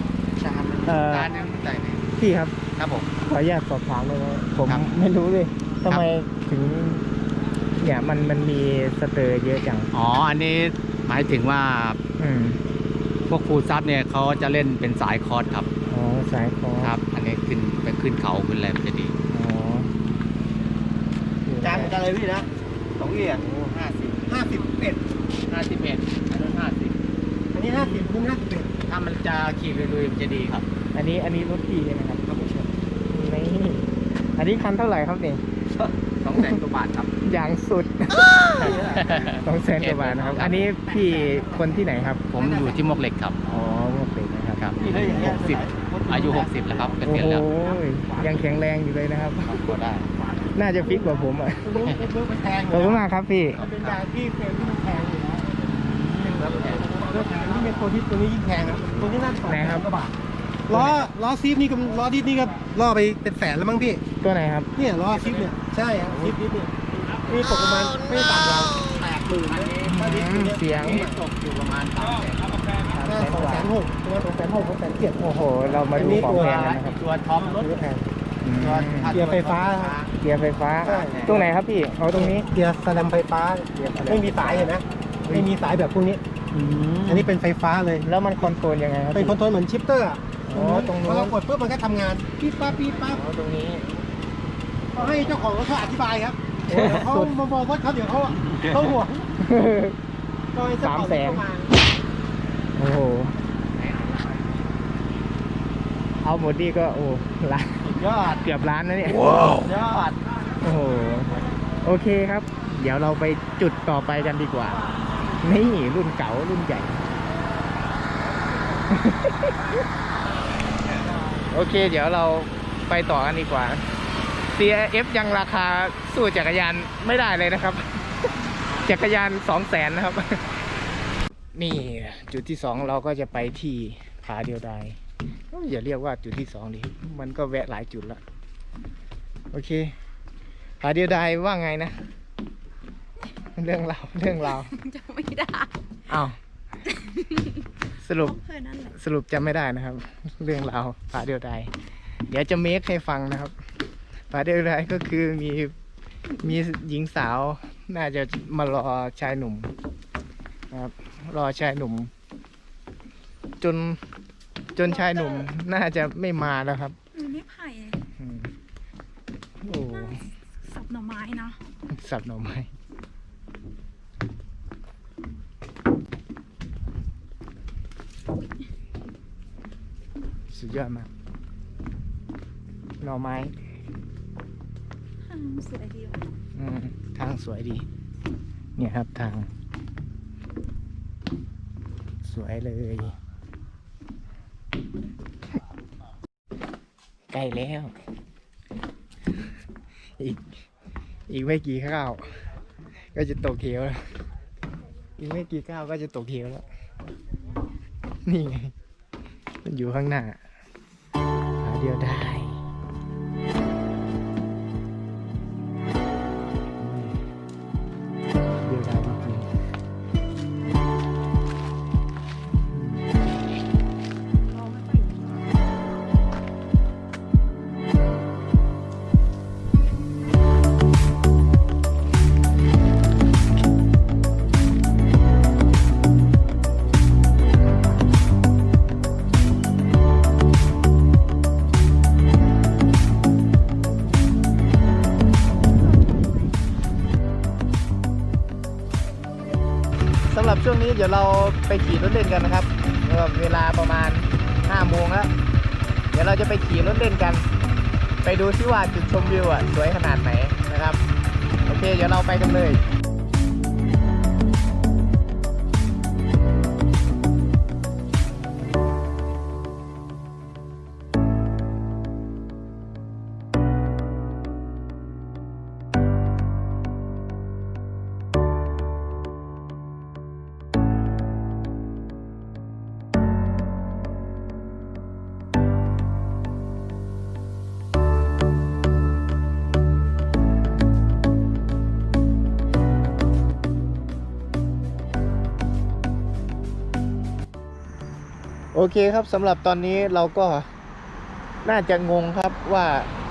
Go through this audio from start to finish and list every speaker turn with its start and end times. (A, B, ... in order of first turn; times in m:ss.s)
0:00.4-0:02.0 A
0:00.8-0:01.3 B
0:02.2-0:02.6 B
0:02.8-0:03.1 A
0:03.2-0:07.1 B
0:07.8-0:09.9 B
0:09.9-0:12.0 A
0:12.2-0:12.6 B
0:13.3-0:15.7 A
0:15.9-0:17.0 B
0:16.8-0:19.2 A
0:19.3-0:19.9 B
0:21.5-0:22.0 B
0:21.6-0:22.4 A
0:23.0-0:24.3 A
0:24.3-0:25.0 C
0:25.5-0:26.9 A
0:27.5-0:28.8 C
0:28.8-0:30.6 A
0:30.9-0:35.4 B
0:35.8-0:37.1 A
0:37.2-0:42.4 B
0:38.6-0:40.8 A
0:42.3-0:43.4 A
0:43.4-0:45.5 B
0:44.6-0:47.7 A
0:47.0-0:49.7 B
0:49.5-0:50.1 A
0:50.5-0:52.0 B
0:50.8-0:53.0 C
0:52.7-0:53.6 B
0:53.6-0:54.0 A
0:53.6-0:55.5 C
0:56.0-0:57.4 A
0:56.3-1:00.1 C
0:59.5-0:59.9 B
1:00.7-1:04.0 C
1:00.7-1:01.1 B
1:04.2-1:04.7 B
1:04.8-1:11.2 C
1:09.5-1:09.8 A
1:09.8-1:11.1 B
1:10.8-1:13.3 A
1:13.0-1:13.7 B
1:13.0-1:15.2 C
1:15.0-1:17.0 B
1:15.9-1:16.7 C
1:15.9-1:17.9 A
1:17.4-1:18.0 C
1:18.4-1:19.2 B
1:18.6-1:20.1 A
1:19.1-1:20.0 C
1:20.2-1:22.5 B
1:20.9-1:21.3 C
1:21.0-1:21.4 A
1:22.1-1:26.2 C
1:23.8-1:25.5 B
1:27.0-1:28.1 C
1:28.0-1:29.4 B
1:29.1-1:33.2 C
1:30.5-1:31.4 B
1:33.1-1:33.9 B
1:34.9-1:39.3 C
1:36.7-1:37.3 B
1:39.4-1:40.0 B
1:40.5-1:41.8 C
1:40.8-1:41.4 B
1:42.8-1:43.4 B
1:43.8-1:44.2 A
1:46.2-1:49.5 B
1:47.9-1:48.4 A
1:49.2-1:50.2 A
1:50.6-1:54.8 B
1:55.4-1:57.0 B
1:58.9-1:59.7 B
2:01.5-2:03.8 B
2:04.5-2:08.0 B
2:08.7-2:10.4 B
2:11.6-2:15.0 B
2:15.5-2:18.2 B
2:19.5-2:20.0 B
2:20.8-2:22.0 B
2:23.6-2:24.7 B
2:24.7-2:25.7 D
2:26.1-2:26.4 B
2:28.0-2:31.7 B
2:28.3-2:29.0 D
2:32.3-2:33.5 B
2:34.3-2:35.8 B
2:36.4-2:39.7 B
2:40.7-2:42.1 B
2:43.6-2:44.0 B
2:44.7-2:47.0 B
2:47.1-2:48.0 D
2:48.2-2:48.5 B
2:49.6-2:50.2 B
2:49.9-2:51.6 D
2:51.9-2:52.7 B
3:00.5-3:01.1 B
3:03.0-3:03.6 B
3:05.3-3:06.2 D
3:06.6-3:07.9 B
3:08.8-3:09.5 B
3:12.2-3:13.2 B
3:17.3-3:17.9 B
3:20.2-3:20.6 B
3:21.3-3:22.2 B
3:23.1-3:24.0 B
3:25.2-3:26.6 B
3:28.2-3:28.7 B
3:29.6-3:30.4 B
3:31.6-3:32.6 B
3:36.8-3:37.2 B
3:38.6-3:39.5 B
3:42.6-3:43.1 B
3:44.7-3:45.2 D
4:10.3-4:15.3 B
4:16.1-4:17.5 B
4:18.2-4:21.0 B
4:21.7-4:22.8 B
4:58.7-5:00.7 B
5:01.6-5:03.1 B